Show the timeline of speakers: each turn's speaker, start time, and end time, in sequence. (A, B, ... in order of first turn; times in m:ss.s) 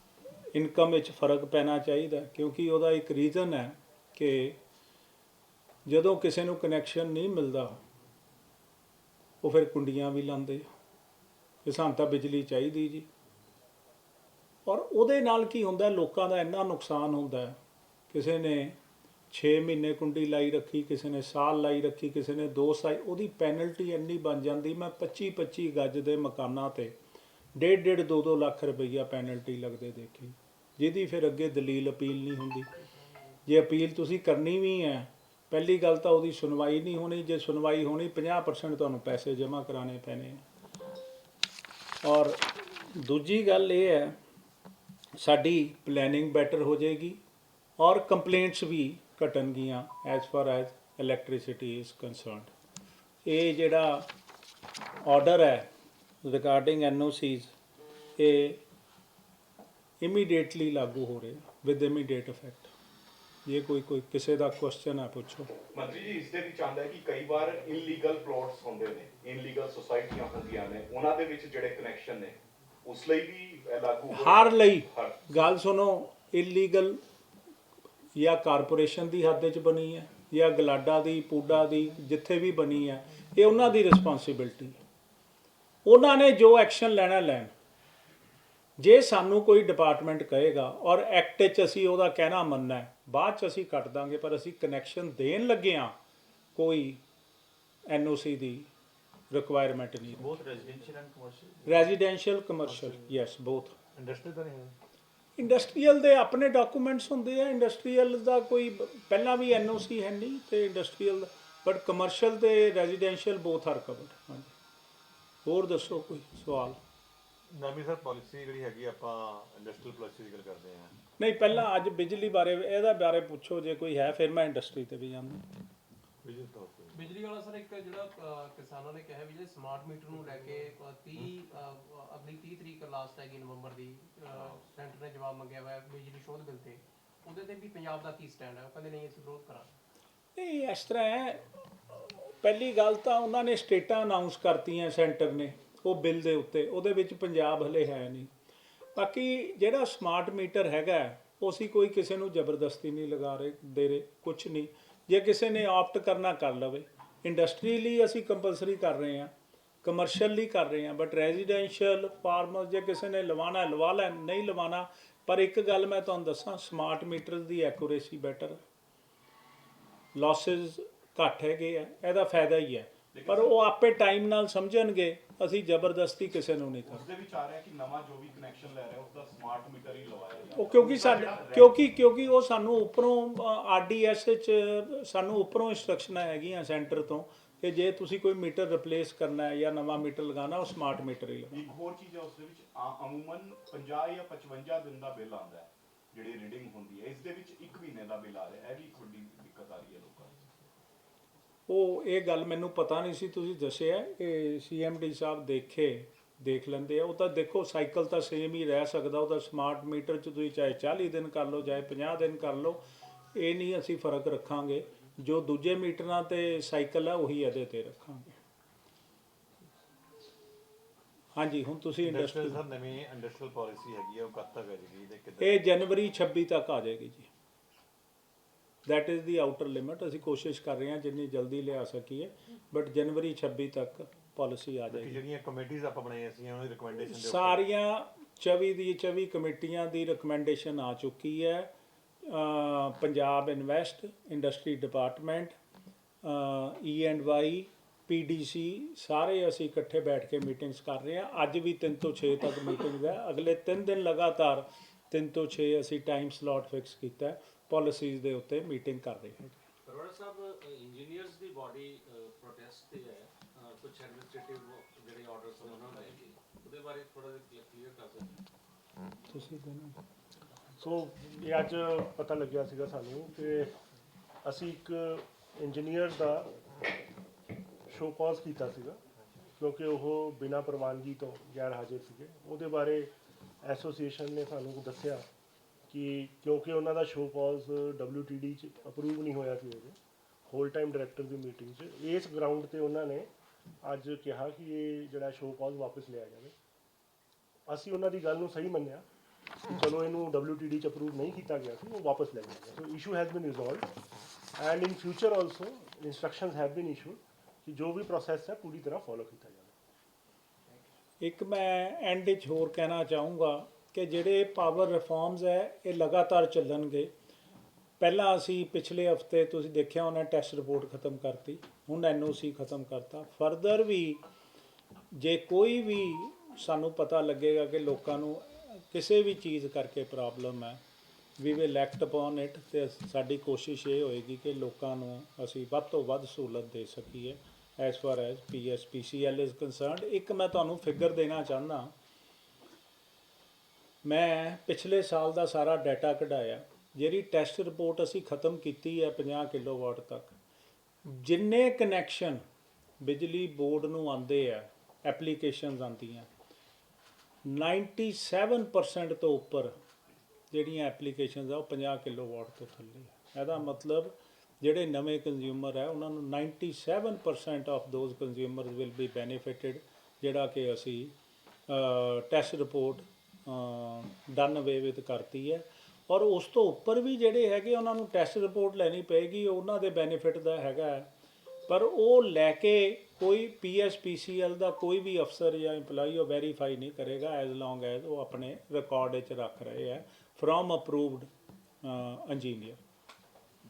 0:00.5-0:04.6 A
0:05.8-0:07.8 A
0:09.4-0:10.6 A
0:11.6-0:13.1 A
0:14.6-0:17.6 A
0:18.1-0:18.8 A
0:19.3-0:26.9 A
0:27.6-0:32.7 A
0:33.5-0:40.4 A
0:42.0-0:44.2 A
0:45.2-0:47.2 A
0:47.8-0:52.5 A
0:53.2-0:54.1 A
0:55.0-0:55.7 A
0:56.2-0:57.5 A
0:58.2-0:58.6 A
1:00.0-1:02.7 A
1:03.4-1:05.5 A
1:05.7-1:15.2 B
1:14.1-1:17.0 A
1:18.2-1:24.8 A
1:25.8-1:27.5 A
1:28.8-1:35.9 A
1:36.5-1:37.0 A
1:37.9-1:38.7 A
1:39.3-1:40.3 A
1:41.6-1:43.7 A
1:42.6-1:43.1 C
1:43.9-1:44.8 C
1:45.4-1:54.5 A
1:55.4-1:56.8 A
1:57.5-2:00.9 C
2:01.2-2:05.4 A
2:06.2-2:07.0 C
2:06.9-2:19.7 D
2:20.4-2:21.4 A
2:21.9-2:28.3 A
2:28.9-2:39.3 A
2:39.8-2:48.6 A
2:50.1-2:57.0 A
2:53.1-2:53.6 B
2:56.9-3:01.8 B
3:00.6-3:11.6 A
3:11.5-3:20.4 B
3:21.7-3:32.8 A
3:33.3-3:38.4 A
3:41.3-3:42.6 A
3:42.0-3:45.6 C
3:45.4-3:47.3 A
3:48.8-3:55.2 A
3:54.9-3:57.6 C
3:57.0-4:01.7 A
4:02.2-4:05.6 A
4:06.2-4:19.6 A
4:19.8-4:28.4 E
4:29.3-4:29.9 A
4:30.8-4:33.7 F
4:34.4-4:36.5 F
4:37.9-4:39.0 F
4:39.6-4:43.1 F
4:43.6-4:45.2 F
4:45.9-4:50.0 F
4:50.5-4:53.3 F
4:53.8-4:56.5 F
4:57.7-4:59.0 F
4:59.7-5:03.9 F
5:04.6-5:09.7 F
5:11.2-5:17.1 A
5:18.0-5:24.2 A
5:25.1-5:30.8 A
5:31.4-5:41.9 A
5:44.0-5:50.4 A
5:51.0-5:52.4 A
5:53.0-5:56.3 A
5:57.4-5:59.7 A
6:00.5-6:11.1 A
6:11.7-6:21.1 A
6:21.7-6:31.3 A
6:31.8-6:32.8 A